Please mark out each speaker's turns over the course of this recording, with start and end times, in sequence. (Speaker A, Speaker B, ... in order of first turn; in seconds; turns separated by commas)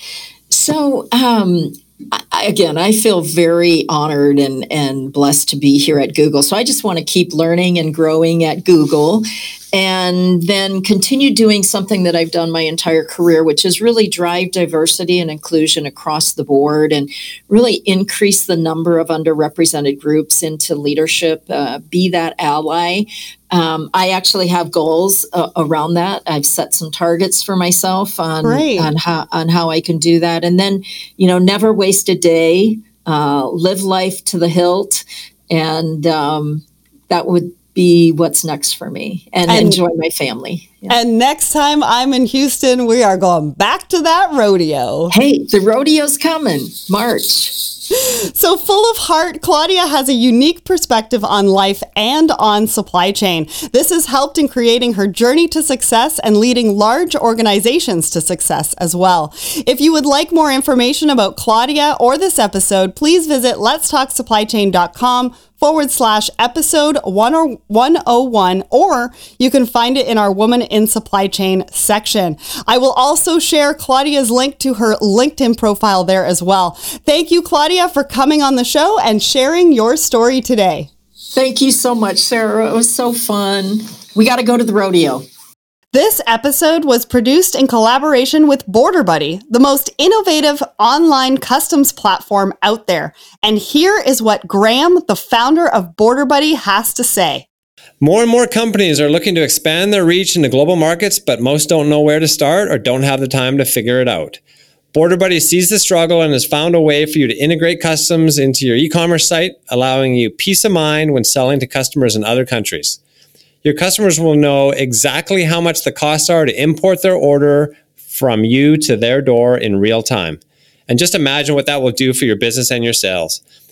Speaker A: 0.5-41.0, Speaker B: 28.4-28.9, Speaker B: 39.5-39.8, Speaker B: 40.9-45.1, Speaker A: 45.1-47.6, Speaker B: 47.9-80.9, Speaker A: 81.3-85.2, Speaker B: 85.9-97.5, Speaker C: 98.0-104.4, Speaker C: 104.9-113.0, Speaker C: 113.6-123.4